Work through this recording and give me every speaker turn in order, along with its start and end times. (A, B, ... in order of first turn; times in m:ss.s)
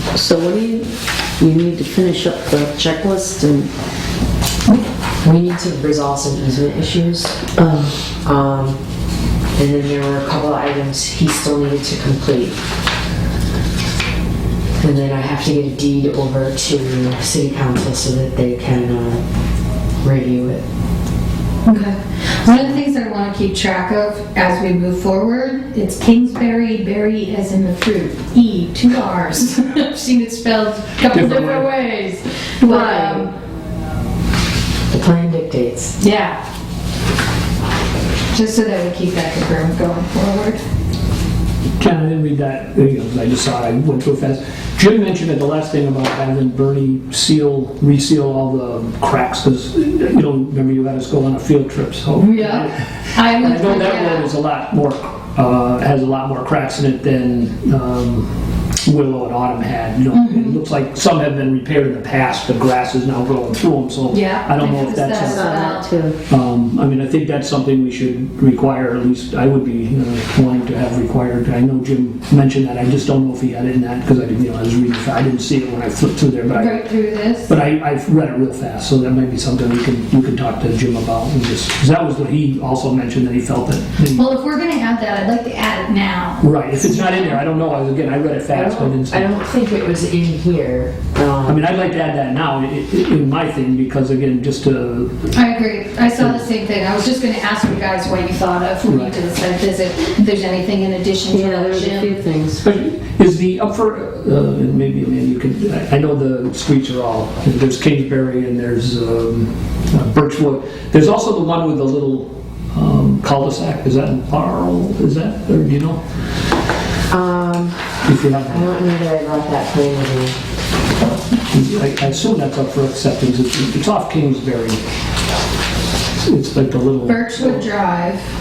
0:00.1-0:03.7 A
0:05.2-0:07.4 B
0:07.6-0:08.0 A
0:08.2-0:08.8 B
0:09.5-0:12.6 B
0:14.8-0:19.2 B
0:20.0-0:20.6 B
0:21.6-0:33.3 C
0:31.1-0:31.7 D
0:32.6-0:33.2 A
0:34.9-0:36.0 B
0:36.0-0:36.4 C
0:38.3-0:40.6 C
0:41.8-0:58.3 D
0:52.2-0:54.3 C
0:58.8-1:05.5 D
1:00.1-1:00.6 C
1:04.1-1:05.9 C
1:05.1-1:06.2 A
1:06.3-1:16.8 D
1:16.5-1:17.6 C
1:17.5-1:24.3 D
1:24.1-1:27.4 C
1:26.4-1:29.3 D
1:28.5-1:31.7 B
1:31.4-1:35.1 D
1:35.3-1:42.2 C
1:36.2-1:36.4 D
1:38.9-1:39.2 D
1:41.3-1:42.6 A
1:42.6-1:56.0 D
1:57.1-2:00.4 B
1:58.0-1:58.7 D
2:01.5-2:04.8 D
2:06.2-2:07.6 D
2:07.0-2:08.2 C